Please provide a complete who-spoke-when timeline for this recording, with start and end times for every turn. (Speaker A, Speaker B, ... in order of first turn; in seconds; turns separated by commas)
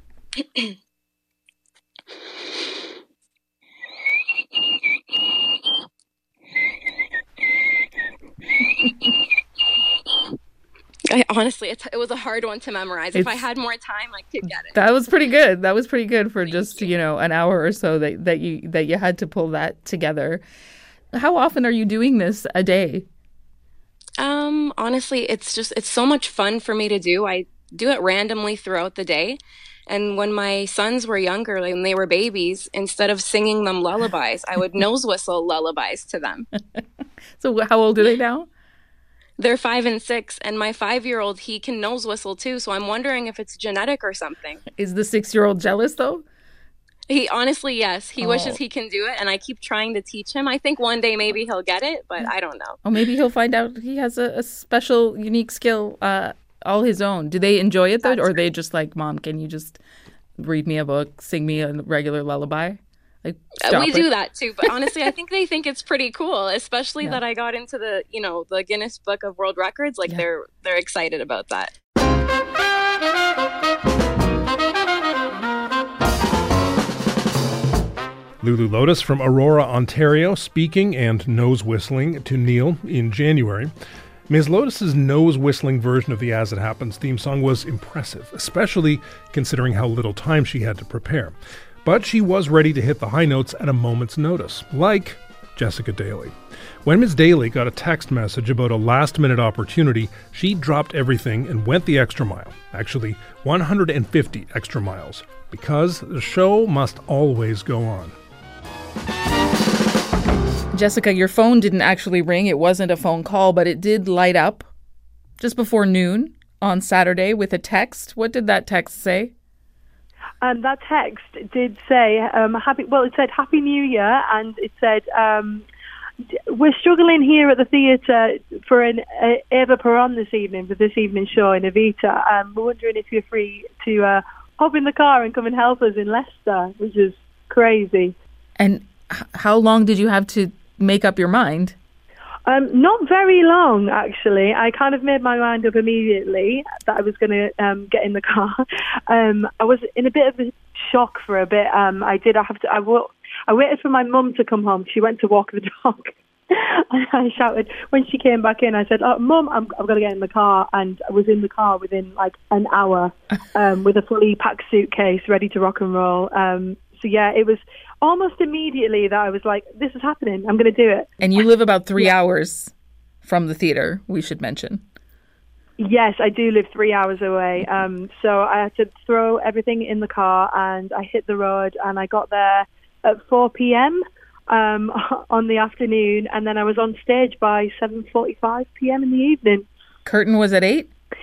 Speaker A: 11.1-14.8, Speaker B: 13.1-13.4, Speaker B: 14.7-20.4, Speaker A: 16.4-16.9, Speaker B: 21.1-23.1, Speaker A: 24.2-36.5, Speaker B: 37.4-38.5, Speaker A: 39.4-44.6, Speaker B: 44.8-46.2, Speaker A: 47.1-52.8, Speaker B: 48.2-48.6, Speaker B: 52.8-59.8, Speaker A: 58.0-58.4, Speaker B: 60.4-64.1, Speaker A: 63.6-71.7, Speaker C: 78.4-83.7, Speaker C: 84.3-108.2, Speaker B: 110.7-114.7, Speaker B: 115.4-119.3, Speaker D: 120.4-125.7, Speaker D: 126.5-138.2, Speaker B: 138.6-141.8, Speaker D: 142.5-171.2, Speaker B: 171.2-174.8, Speaker D: 175.8-189.7, Speaker B: 190.1-190.9